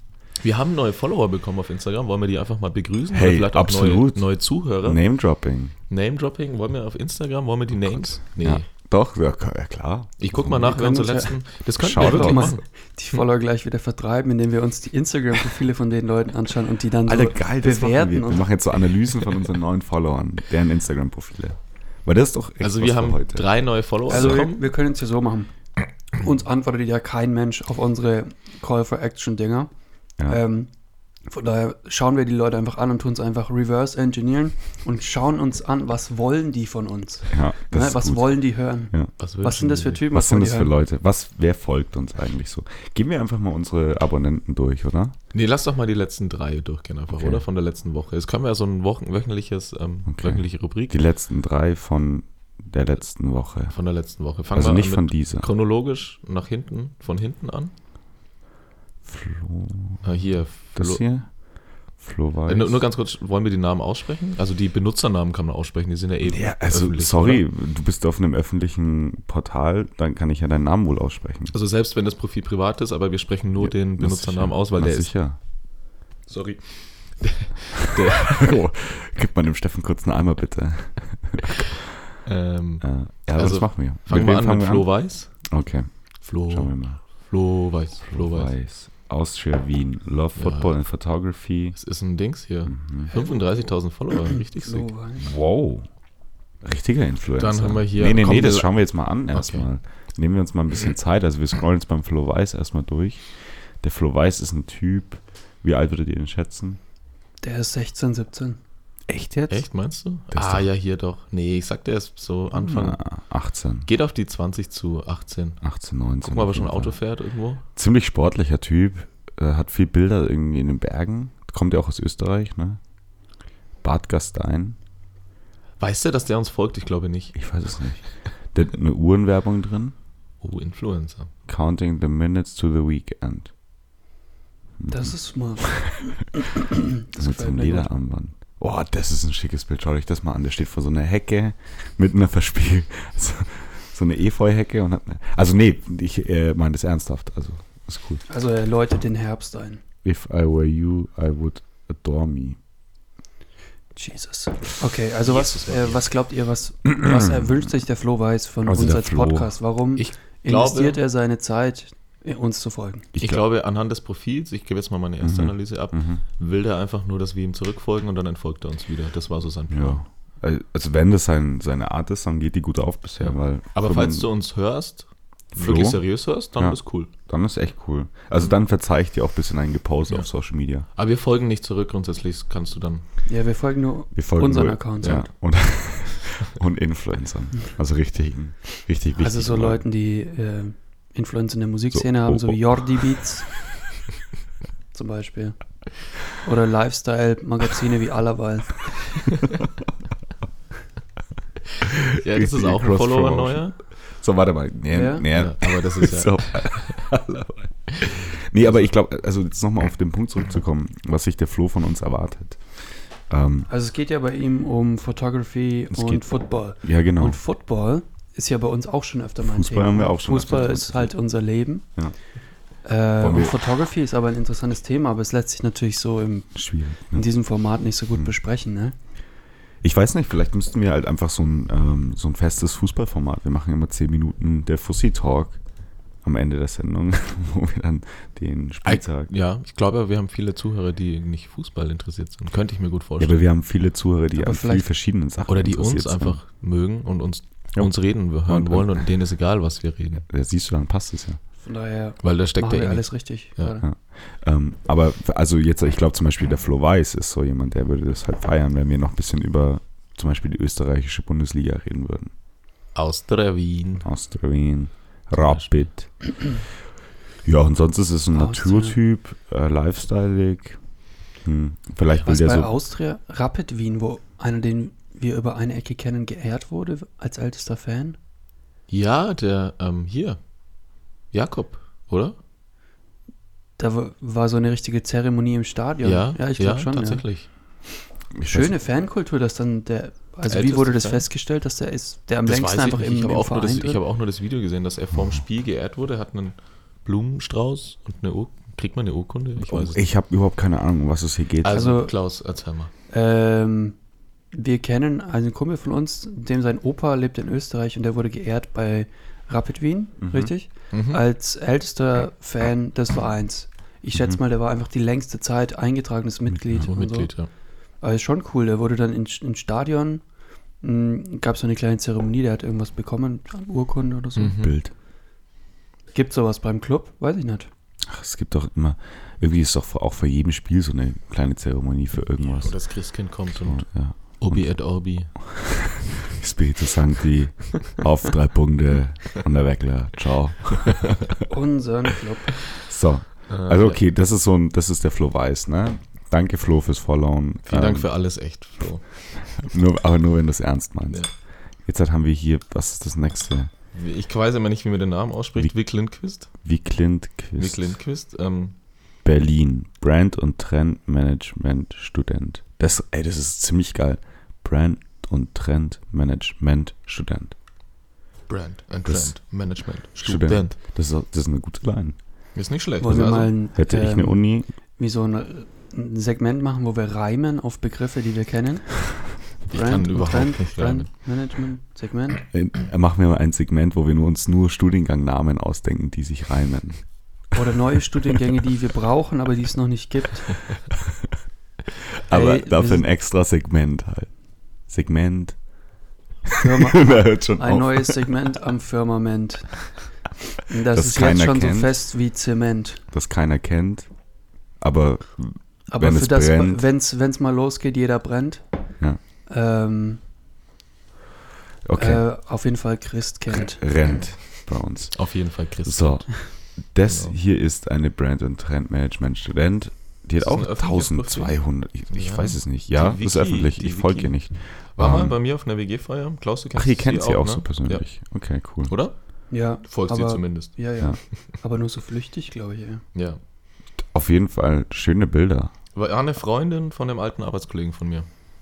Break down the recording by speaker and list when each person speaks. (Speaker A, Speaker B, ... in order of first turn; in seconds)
Speaker A: 0.4-5.0, 5.9-8.7, 10.2-12.6, 22.6-24.6, 39.2-40.0, 45.3-51.0, 53.7-57.7, 60.0-61.0, 62.5-67.4, 71.5-75.1, 76.3-78.5, 82.2-85.3, 86.2-88.5, 90.3-90.8, 91.7-94.9, 97.4-98.8, 99.3-99.7, 109.5-113.0, 113.8-115.6, 116.2-117.6, 125.8-127.4, 130.4-131.3, 155.2-156.1, 159.9-161.0, 163.2-170.0, 173.2-177.1, 180.9-183.0, 201.8-203.8, 205.3-207.1, 207.9-208.9, 238.8-243.4, 245.5-250.2, 252.2-253.0, 262.9-264.1, 265.3-265.8, 278.9-280.4, 281.3-282.4, 286.0-287.5, 290.4-291.2, 292.4-300.0, 301.6-302.9, 310.9-311.2, 316.8-317.5, 324.4-324.8, 332.6-335.4, 343.5-344.0, 347.6-349.1, 353.9-356.5, 357.6-358.7, 368.5-370.8, 372.5-373.5, 379.7-381.1, 415.1-417.3, 420.4-421.6, 422.1-428.0, 428.9-429.1, 429.8-430.7, 433.1-433.4, 435.9-438.3
Speaker B: 3.1-5.7, 8.2-10.6, 11.8-12.6, 17.1-23.5, 24.1-24.4, 37.3-38.4, 40.1-45.1, 47.2-47.4, 50.1-53.7, 54.5-55.5, 59.0-60.1, 60.7-61.4, 62.0-62.8, 66.2-71.5, 73.6-75.4, 78.2-81.9, 82.8-85.9, 86.4-87.0, 88.0-91.8, 92.7-93.1, 95.2-95.8, 96.6-106.8, 109.1-109.6, 110.3-110.7, 112.5-113.9, 115.6-117.0, 117.7-122.8, 123.8-124.8, 127.3-129.9, 131.5-133.5, 134.8-135.9, 137.2-148.2, 150.0-152.6, 157.0-157.6, 158.6-159.5, 163.1-163.4, 165.2-166.2, 169.7-174.3, 175.5-176.0, 176.5-180.9, 184.1-189.8, 191.9-193.2, 202.3-213.7, 215.9-216.3, 216.8-217.4, 219.4-221.1, 223.2-223.6, 226.6-227.2, 229.8-235.6, 236.2-239.3, 243.2-246.4, 247.8-249.1, 250.3-251.4, 253.8-262.3, 264.0-266.6, 267.4-270.8, 271.4-272.7, 288.3-288.7, 295.1-295.4, 299.6-301.9, 310.2-310.5, 324.6-324.9, 328.1-332.8, 333.6-334.8, 335.3-341.3, 342.7-348.1, 349.6-351.3, 351.8-353.7, 356.6-357.9, 359.2-367.5, 369.1-369.4, 370.2-372.1, 373.1-374.7, 382.5-387.0, 392.3-394.3, 394.9-395.6, 396.5-398.3, 400.9-402.0, 403.1-404.1, 404.8-406.8, 411.8-412.2, 413.5-425.4, 426.8-428.9, 434.0-435.7
Speaker C: 10.5-11.4, 11.9-18.5, 24.1-25.5, 26.1-29.7, 30.2-30.7, 31.2-40.7, 93.1-93.7, 94.2-95.3, 107.4-108.6, 134.9-137.9, 148.3-149.8, 153.9-163.1, 183.2-185.2, 189.2-193.6, 194.9-199.4, 204.9-205.3, 213.7-221.8, 222.8-228.9, 244.4-244.9, 251.6-253.8, 268.3-269.0, 272.2-278.2, 283.8-287.2, 288.4-294.0, 301.7-302.1, 303.1-303.9, 304.5-317.3, 318.0-320.2, 320.8-324.6, 326.1-327.7, 341.5-342.7, 373.0-382.4, 387.5-390.8, 392.3-393.0, 396.6-400.0, 400.6-403.0, 405.9-408.6, 409.5-410.2, 411.9-413.8, 429.5-433.0